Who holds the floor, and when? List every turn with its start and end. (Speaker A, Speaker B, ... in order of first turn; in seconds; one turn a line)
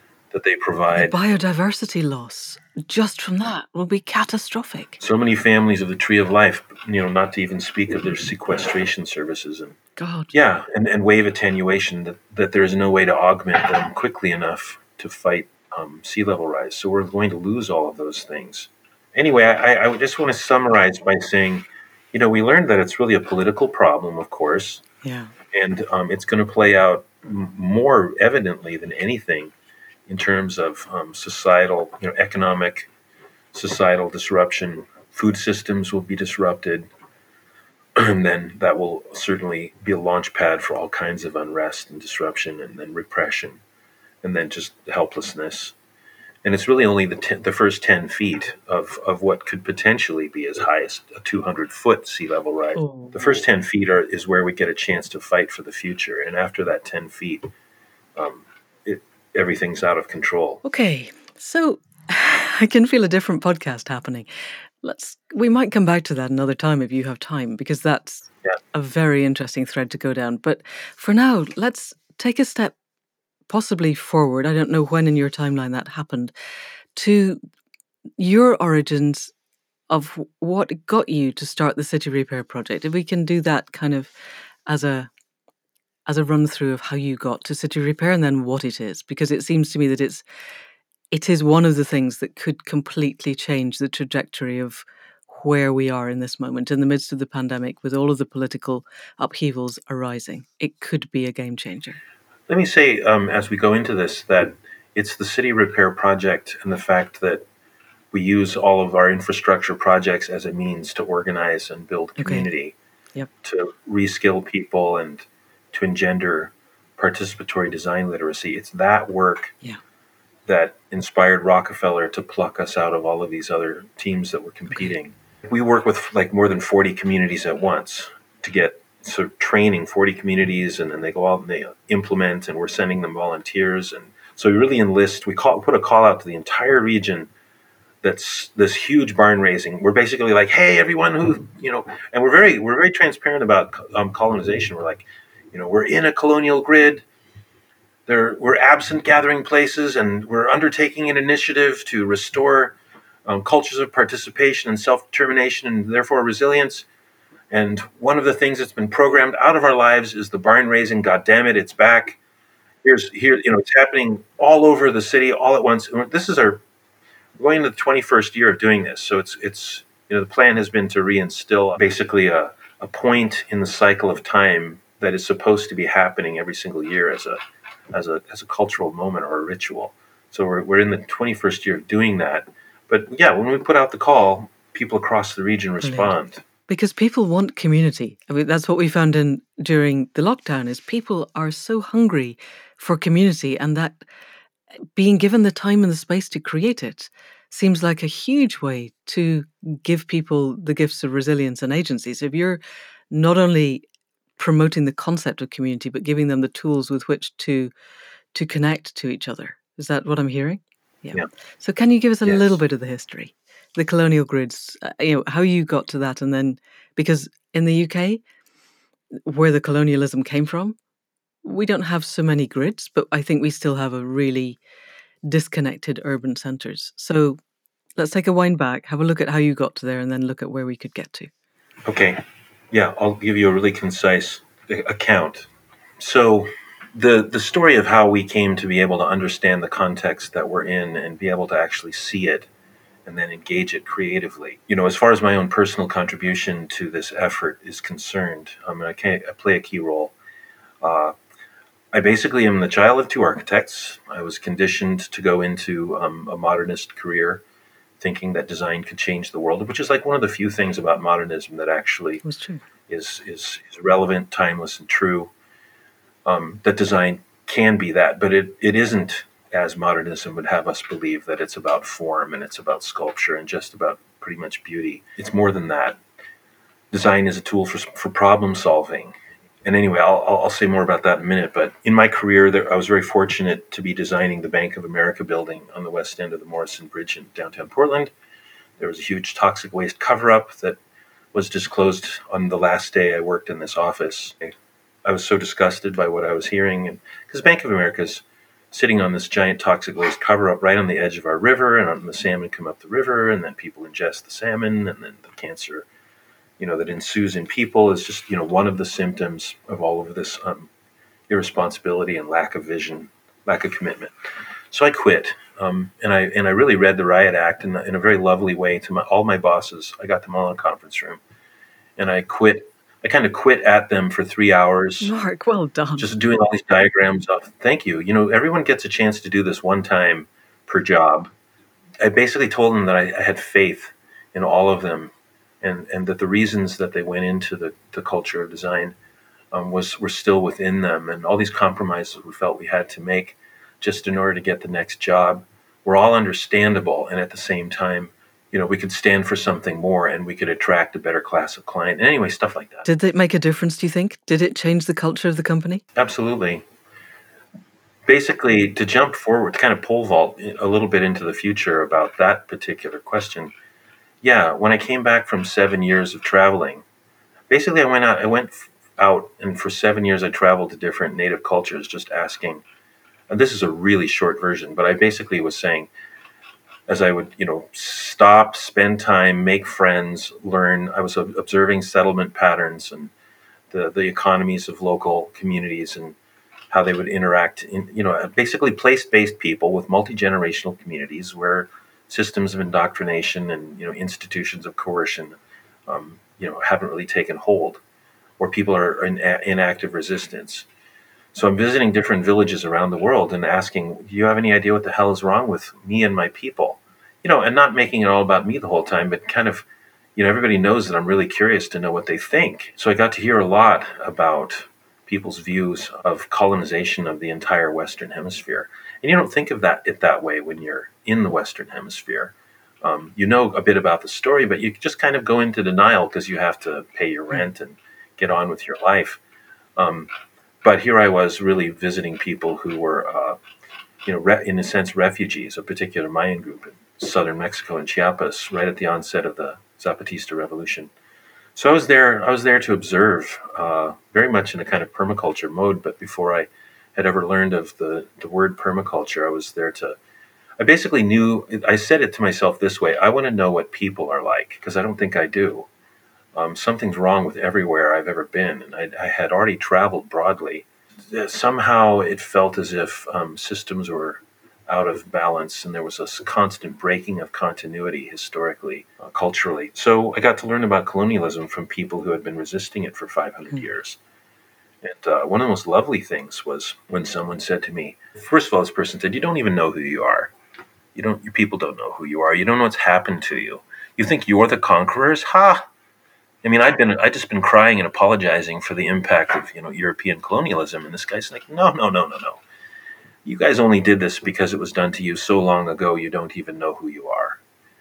Speaker A: 0.3-1.2
Speaker B: 0.9-5.0
Speaker A: 5.0-9.8
Speaker B: 9.9-10.3
Speaker A: 10.3-24.8
Speaker B: 25.0-25.3
Speaker A: 25.5-29.5
Speaker A: 30.1-32.9
Speaker A: 33.5-36.9
Speaker A: 38.0-43.6
Speaker A: 44.2-45.8
Speaker A: 46.4-57.5
Speaker B: 52.8-53.4
Speaker A: 58.2-60.6
Speaker B: 60.6-64.3
Speaker B: 64.8-72.7
Speaker B: 73.5-76.3
Speaker B: 76.9-77.4
Speaker B: 78.2-79.3
Speaker B: 79.9-84.1
Speaker B: 84.7-85.1
Speaker B: 86.1-90.2
Speaker B: 91.1-102.0
Speaker A: 102.5-107.4
Speaker A: 108.1-112.8
Speaker B: 112.2-112.5
Speaker A: 113.4-119.5
Speaker A: 120.5-137.3
Speaker A: 138.0-147.1
Speaker A: 148.1-156.9
Speaker A: 157.5-162.2
Speaker A: 162.8-166.6
Speaker A: 167.4-177.4
Speaker A: 177.9-186.4
Speaker B: 185.8-186.1
Speaker B: 186.7-194.1
Speaker B: 194.9-203.8
Speaker B: 204.4-207.7
Speaker B: 208.3-218.2
Speaker B: 219.2-220.8
Speaker B: 221.4-224.6
Speaker B: 225.2-227.4
Speaker B: 227.9-231.3
Speaker A: 231.8-232.2
Speaker A: 232.7-242.5
Speaker A: 243.1-250.2
Speaker A: 250.8-251.2
Speaker A: 251.9-257.4
Speaker A: 258.0-262.2
Speaker B: 262.2-262.6
Speaker A: 262.9-265.3
Speaker A: 266.2-276.0
Speaker A: 276.9-288.1
Speaker A: 288.8-290.8
Speaker A: 291.3-294.5
Speaker A: 295.1-305.9
Speaker A: 306.6-310.7
Speaker A: 311.3-314.1
Speaker A: 314.7-321.2
Speaker A: 322.0-325.1
Speaker B: 325.0-326.1
Speaker A: 326.0-331.3
Speaker A: 332.0-338.9
Speaker A: 339.5-352.9
Speaker B: 352.8-355.8
Speaker A: 355.9-356.6
Speaker A: 358.1-363.5
Speaker A: 364.2-366.8
Speaker A: 367.5-372.6
Speaker A: 373.3-375.9
Speaker A: 376.9-383.1
Speaker A: 383.7-386.2
Speaker A: 386.7-395.3
Speaker A: 395.9-397.8
Speaker A: 398.4-400.7
Speaker A: 401.3-429.2
Speaker A: 429.8-430.1
Speaker A: 430.6-433.4
Speaker A: 434.1-440.9
Speaker A: 441.6-450.0
Speaker A: 450.6-455.7
Speaker A: 456.3-474.0
Speaker A: 474.8-480.3
Speaker A: 480.9-485.6
Speaker A: 486.4-492.4
Speaker A: 493.2-497.4